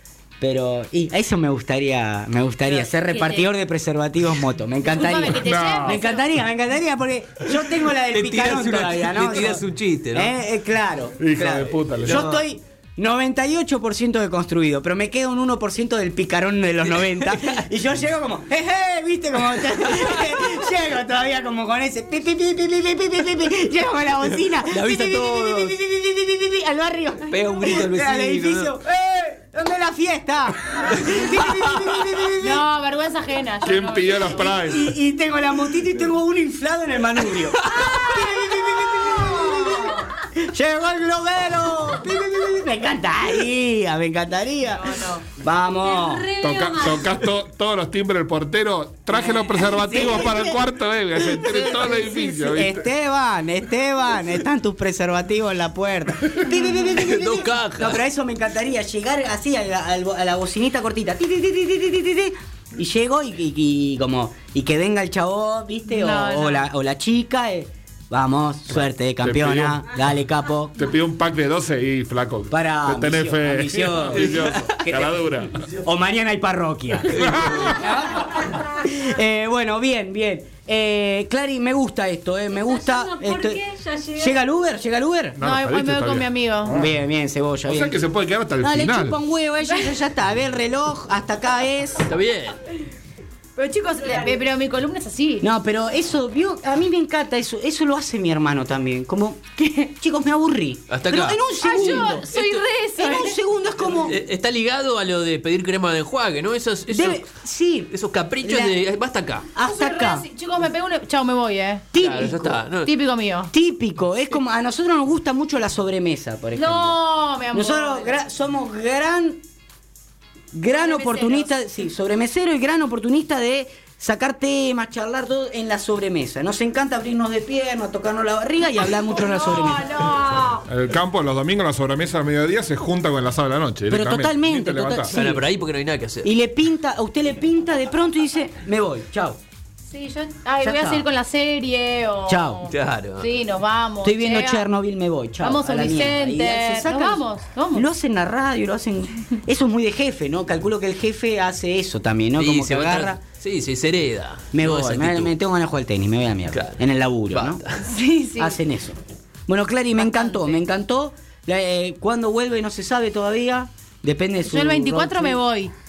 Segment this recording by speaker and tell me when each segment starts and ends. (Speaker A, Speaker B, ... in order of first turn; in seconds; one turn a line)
Speaker A: 0.4-32.6
Speaker B: 2.6-3.5
Speaker B: 4.8-6.3
Speaker C: 5.4-6.0
Speaker D: 7.9-10.3
Speaker C: 11.2-12.3
Speaker D: 12.0-12.4
Speaker D: 16.9-17.6
Speaker D: 19.7-20.6
Speaker D: 24.6-25.7
Speaker D: 27.3-28.7
Speaker D: 31.4-31.9
Speaker B: 32.4-34.6
Speaker C: 33.6-35.0
Speaker A: 34.4-46.3
Speaker E: 37.8-40.1
Speaker B: 44.6-45.2
Speaker E: 45.8-47.2
Speaker C: 46.4-52.9
Speaker A: 49.6-50.6
Speaker A: 51.1-70.8
Speaker D: 56.8-58.0
Speaker B: 65.9-66.7
Speaker C: 69.2-69.8
Speaker C: 70.8-75.6
Speaker A: 72.5-83.6
Speaker D: 74.2-74.7
Speaker D: 77.1-77.5
Speaker C: 77.2-77.7
Speaker E: 82.5-84.4
Speaker A: 84.2-85.4
Speaker C: 85.4-86.9
Speaker B: 85.4-86.8
Speaker A: 86.7-88.0
Speaker C: 87.7-89.2
Speaker A: 88.6-92.1
Speaker B: 89.7-90.0
Speaker D: 92.0-92.6
Speaker B: 93.5-95.5
Speaker A: 95.4-102.4
Speaker D: 100.9-102.6
Speaker B: 101.6-103.4
Speaker A: 103.0-104.2
Speaker D: 104.0-107.3
Speaker A: 106.9-107.9
Speaker D: 107.9-109.5
Speaker A: 108.4-108.8
Speaker A: 109.5-110.2
Speaker B: 109.6-111.8
Speaker A: 111.9-112.6
Speaker D: 112.0-112.9
Speaker B: 112.8-113.5
Speaker A: 113.5-117.0
Speaker B: 116.5-118.1
Speaker A: 117.5-119.4
Speaker A: 120.5-130.0
Speaker B: 120.7-121.5
Speaker E: 129.2-130.6
Speaker B: 129.6-130.6
Speaker C: 130.7-135.1
Speaker A: 133.9-135.4
Speaker D: 135.1-136.3
Speaker A: 136.2-139.4
Speaker B: 139.9-144.7
Speaker A: 140.6-141.1
Speaker A: 142.3-142.7
Speaker D: 142.7-143.3
Speaker A: 144.0-153.2
Speaker B: 145.4-147.8
Speaker D: 152.4-155.3
Speaker A: 154.5-157.6
Speaker D: 156.5-156.8
Speaker D: 157.3-157.9
Speaker B: 157.9-158.6
Speaker A: 158.4-165.4
Speaker B: 160.0-160.6
Speaker B: 164.4-165.7